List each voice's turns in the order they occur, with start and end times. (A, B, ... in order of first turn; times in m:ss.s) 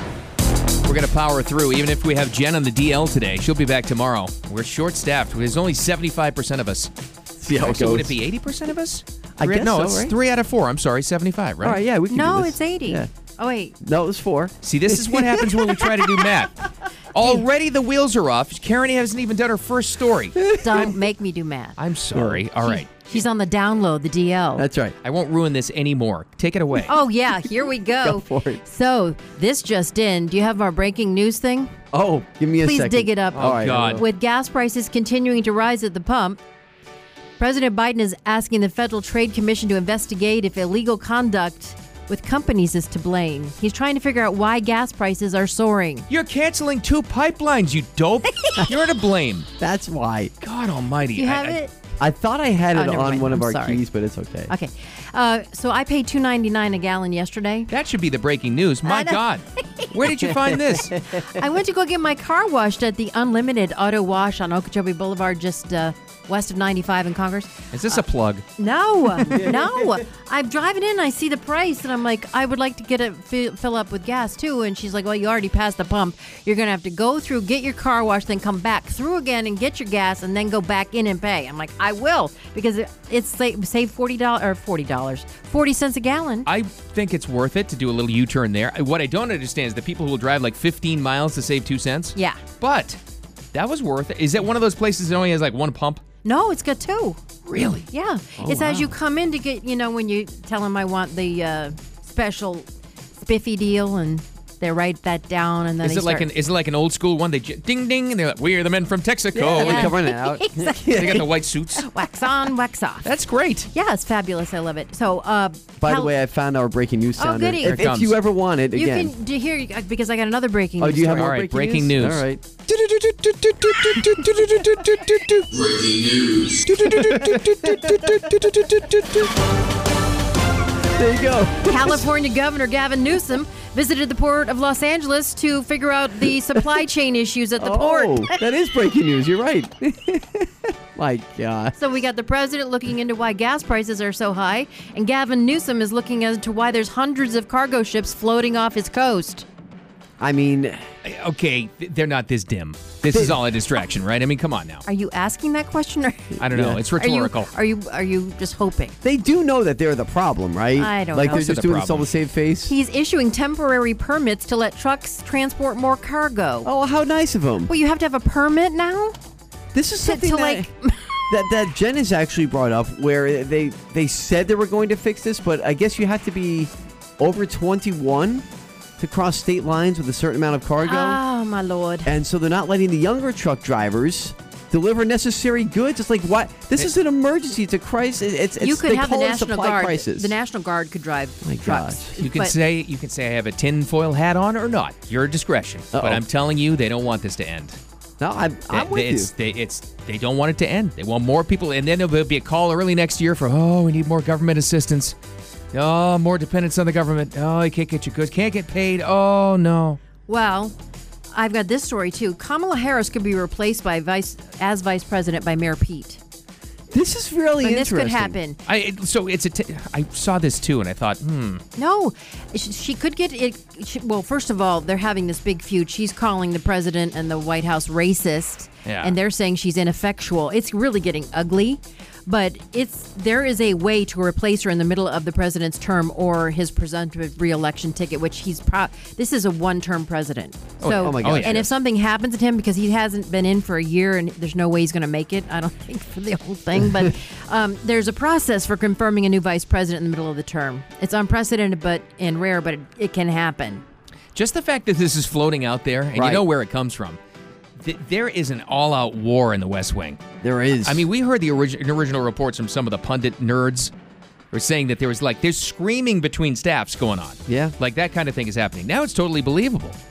0:00.8-0:06.9 A
0:07.4-0:08.2 B
0:07.5-0:11.8 A
0:09.4-0:10.1 B
0:11.6-0:13.1 B
0:12.1-0:13.7 C
0:13.8-0:16.4 B
0:14.6-0:20.4 A
0:20.4-0:20.9 B
0:20.5-0:21.8 C
0:21.8-0:23.1 A
0:22.1-0:22.4 B
0:22.6-0:24.7 C
0:24.6-0:25.0 B
0:25.0-0:26.9 A
0:26.8-0:31.7 C
0:28.0-0:28.6 B
0:31.9-0:34.0 B
0:32.6-0:36.4 C
0:33.3-0:34.0 A
0:37.4-0:46.1 C
0:46.1-0:49.5 A
0:49.6-0:50.3 B
0:50.4-0:51.6 A
0:51.1-0:51.7 C
0:52.0-0:54.5 B
0:52.7-0:53.8 C
0:54.5-0:57.7 C
0:57.7-1:00.9 A
0:58.8-0:59.9 C
1:00.1-1:00.9 B
1:01.1-1:08.0 C
1:07.7-1:08.4 A
1:08.6-1:26.5 C
1:09.2-1:10.0 B
1:26.4-1:33.0 A
1:32.1-1:32.4 C
1:33.5-1:36.0 A
1:36.2-1:37.2 C
1:37.4-1:37.9 A
1:37.9-1:46.3 C
1:38.4-1:38.9 B
1:45.8-1:50.0 A
1:49.3-1:51.3 B
1:49.6-1:51.1 C
1:50.9-1:51.9 A
1:51.7-1:53.1 C
1:53.0-1:53.7 A
1:53.7-1:56.1 C
1:55.8-1:59.1 B
1:57.2-1:57.9 C
1:57.6-1:58.2 A
1:58.7-2:01.3 C
2:00.8-2:02.6 B
2:01.1-2:09.3 A
2:03.6-2:05.1 B
2:06.7-2:08.7 B
2:10.9-2:12.1 B
2:11.6-2:18.4 C
2:16.5-2:16.8 B
2:17.6-2:21.8 B
2:21.8-2:29.4 C
2:30.2-2:30.8 B
2:31.0-2:34.8 A
2:33.1-2:33.4 B
2:34.8-2:36.4 C
2:36.4-2:37.5 A
2:36.5-2:36.8 B
2:37.0-2:39.0 C
2:39.0-2:42.7 B
2:40.8-2:41.5 C
2:41.2-2:42.1 A
2:42.7-2:46.7 C
2:46.6-2:47.7 B
2:47.7-2:49.1 C
2:49.7-2:50.7 B
2:50.0-2:51.2 C
2:51.3-2:58.4 B
2:59.0-3:01.2 B
3:00.8-3:02.1 C
3:02.0-3:10.3 B
3:08.6-3:12.5 C
3:11.4-3:12.2 B
3:12.2-3:17.8 A
3:15.9-3:16.2 B
3:18.2-3:19.3 B
3:18.7-3:25.2 A
3:25.7-3:30.0 A
3:30.3-3:30.7 C
3:31.3-3:36.2 C
3:36.9-3:38.4 B
3:37.6-3:38.6 C
3:38.7-3:41.6 A
3:41.8-4:13.8 C
3:48.8-3:49.2 A
4:00.8-4:01.7 A
4:00.9-4:01.6 B
4:14.3-4:17.2 A
4:16.1-4:16.4 B
4:17.8-4:20.2 A
4:20.4-4:21.0 B
4:20.8-4:23.9 A
4:24.5-4:30.0 A
4:27.5-4:27.7 B